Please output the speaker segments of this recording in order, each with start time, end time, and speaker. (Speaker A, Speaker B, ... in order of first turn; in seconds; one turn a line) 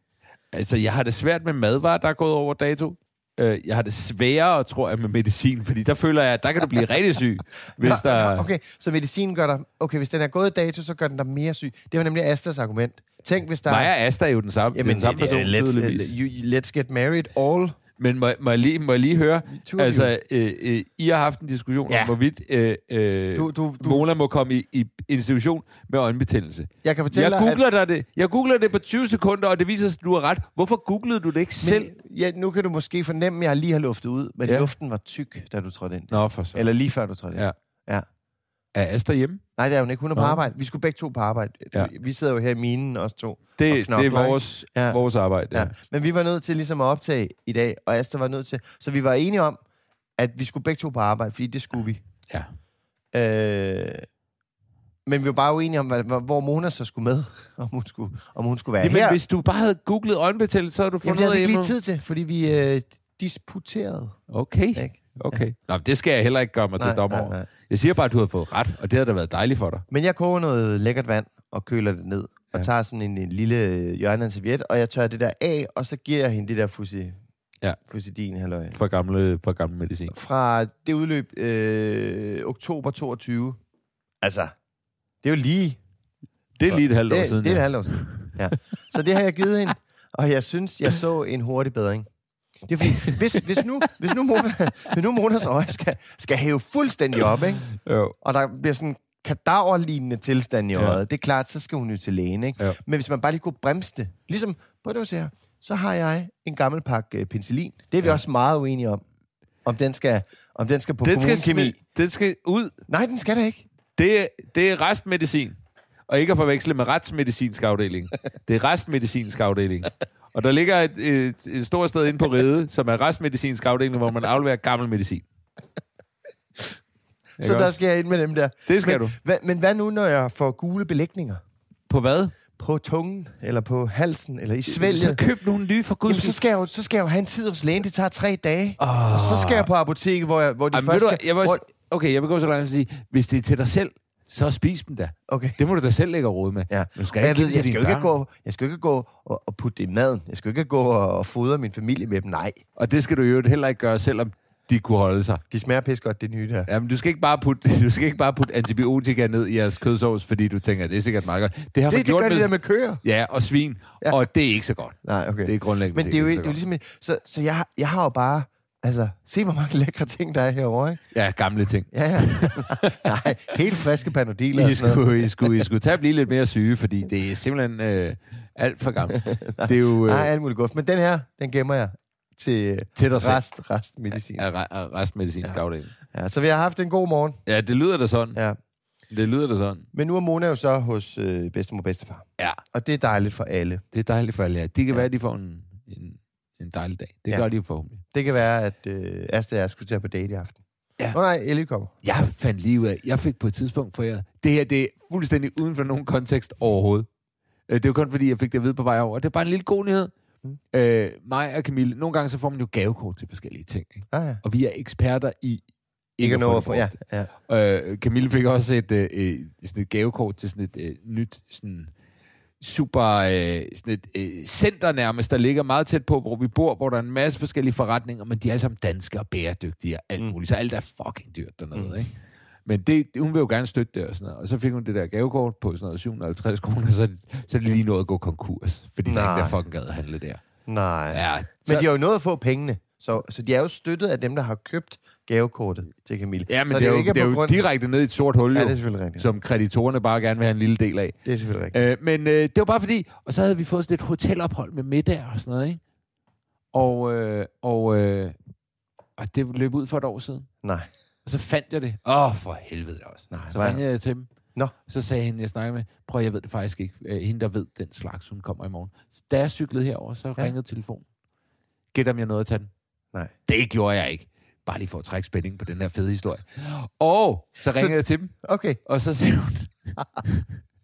Speaker A: 0.5-8.5
Speaker B: 7.8-13.9
Speaker A: 13.7-16.1
Speaker B: 14.7-17.8
Speaker A: 18.0-31.9
Speaker B: 19.6-20.1
Speaker B: 21.9-22.1
Speaker B: 23.3-24.0
Speaker B: 26.8-27.6
Speaker B: 31.6-38.0
Speaker A: 34.4-34.7
Speaker A: 36.1-36.6
Speaker A: 38.7-39.4
Speaker B: 39.6-45.0
Speaker A: 40.1-40.4
Speaker A: 43.6-45.7
Speaker B: 45.5-49.6
Speaker B: 50.2-52.0
Speaker B: 53.1-54.0
Speaker B: 55.0-59.2
Speaker A: 58.8-61.7
Speaker B: 61.0-64.2
Speaker A: 64.3-69.8
Speaker B: 64.7-65.4
Speaker B: 66.8-67.5
Speaker B: 69.9-77.2
Speaker B: 77.9-78.8
Speaker A: 78.7-80.1
Speaker B: 80.1-83.6
Speaker B: 84.2-84.5
Speaker B: 85.2-85.8
Speaker A: 86.6-88.4
Speaker B: 86.7-92.1
Speaker B: 92.7-97.7
Speaker A: 97.8-98.1
Speaker B: 98.2-109.0
Speaker B: 109.6-111.7
Speaker A: 111.0-112.8
Speaker B: 112.9-113.6
Speaker A: 114.0-115.6
Speaker A: 116.1-125.2
Speaker B: 127.4-131.4
Speaker A: 127.4-127.8
Speaker A: 128.7-129.1
Speaker A: 131.9-132.3
Speaker B: 132.6-135.2
Speaker A: 134.7-136.4
Speaker B: 136.1-141.6
Speaker A: 138.8-139.7
Speaker A: 140.7-148.1
Speaker B: 145.3-145.6
Speaker B: 146.7-152.6
Speaker A: 152.8-155.4
Speaker B: 155.5-156.7
Speaker A: 156.7-166.6
Speaker B: 161.9-163.0
Speaker B: 165.0-171.0
Speaker A: 171.1-173.2
Speaker B: 171.9-175.7
Speaker A: 174.5-180.3
Speaker B: 179.6-184.5
Speaker A: 183.0-183.4
Speaker A: 184.2-185.9
Speaker B: 186.1-187.4
Speaker A: 187.5-188.4
Speaker A: 189.1-189.8
Speaker B: 189.9-193.8
Speaker A: 193.9-198.0
Speaker B: 198.1-200.6
Speaker B: 201.1-201.9
Speaker A: 202.0-207.1
Speaker A: 207.7-210.1
Speaker A: 210.7-215.6
Speaker B: 214.1-214.4
Speaker A: 216.2-216.9
Speaker B: 216.2-217.3
Speaker A: 217.5-221.9
Speaker A: 222.6-232.1
Speaker A: 232.7-240.4
Speaker B: 239.1-239.6
Speaker B: 240.7-247.6
Speaker A: 241.1-241.8
Speaker A: 246.5-251.2
Speaker B: 248.5-249.3
Speaker B: 251.2-251.8
Speaker A: 251.7-255.8
Speaker A: 256.7-258.4
Speaker A: 259.2-260.5
Speaker B: 260.6-260.9
Speaker A: 261.2-264.3
Speaker B: 263.3-263.8
Speaker A: 264.9-271.0
Speaker A: 271.9-272.7
Speaker A: 273.5-278.3
Speaker B: 277.7-278.8
Speaker A: 278.9-280.4